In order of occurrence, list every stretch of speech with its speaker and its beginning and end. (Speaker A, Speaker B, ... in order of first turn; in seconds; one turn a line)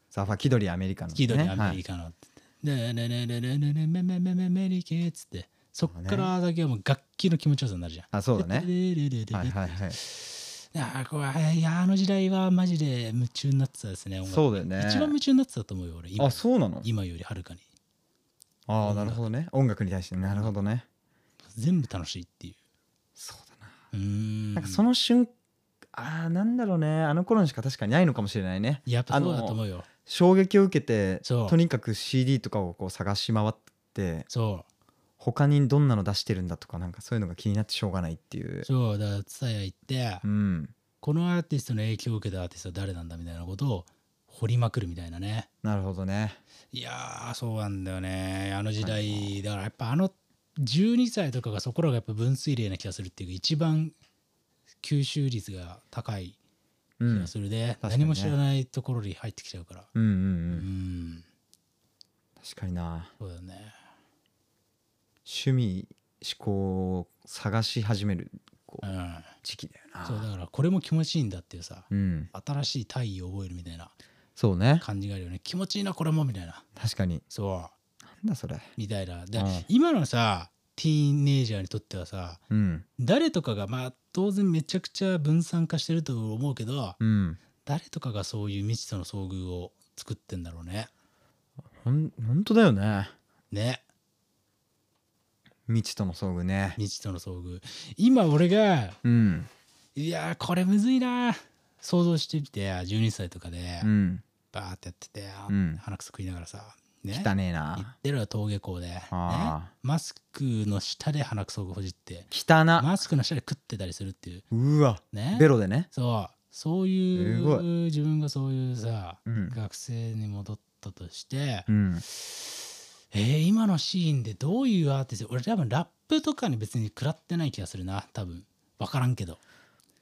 Speaker A: 0.1-1.8
Speaker B: 1.1-17.6
Speaker A: 5.9-6.3
Speaker A: 8.1-8.7
Speaker A: 9.3-10.0
Speaker A: 14.2-15.1
Speaker A: 16.2-16.9
Speaker A: 18.7-20.9
Speaker B: 18.8-19.2
Speaker B: 20.2-20.5
Speaker B: 21.5-22.6
Speaker A: 23.2-23.7
Speaker B: 23.9-24.8
Speaker A: 24.6-25.3
Speaker A: 25.9-34.3
Speaker B: 28.9-29.9
Speaker B: 31.2-31.6
Speaker B: 34.3-34.6
Speaker A: 35.2-38.7
Speaker B: 38.6-40.2
Speaker A: 40.2-40.7
Speaker B: 41.0-45.5
Speaker A: 45.6-46.4
Speaker B: 46.7-54.0
Speaker A: 48.8-49.4
Speaker B: 54.8-56.4
Speaker A: 57.0-58.3
Speaker B: 57.1-59.9
Speaker A: 59.9-60.7
Speaker B: 60.5-61.2
Speaker A: 62.4-63.1
Speaker B: 63.2-63.8
Speaker A: 65.2-68.8
Speaker B: 68.8-69.3
Speaker A: 69.4-70.3
Speaker B: 70.0-73.9
Speaker A: 71.9-72.3
Speaker A: 74.4-74.8
Speaker B: 74.8-76.6
Speaker A: 76.8-77.2
Speaker B: 77.3-77.7
Speaker A: 78.2-78.7
Speaker B: 78.8-82.4
Speaker A: 79.4-79.7
Speaker A: 82.5-82.8
Speaker B: 83.0-87.0
Speaker A: 87.0-87.4
Speaker B: 87.6-90.9
Speaker A: 91.8-93.1
Speaker B: 93.5-93.8
Speaker A: 95.7-96.8
Speaker B: 96.8-99.0
Speaker A: 99.0-99.5
Speaker B: 99.9-103.9
Speaker A: 103.8-104.2
Speaker B: 104.5-114.5
Speaker A: 105.5-105.8
Speaker A: 107.1-107.9
Speaker A: 109.1-109.7
Speaker A: 112.3-112.9
Speaker A: 114.5-115.9
Speaker B: 115.1-129.4
Speaker A: 117.1-117.7
Speaker A: 119.2-119.5
Speaker A: 121.7-122.0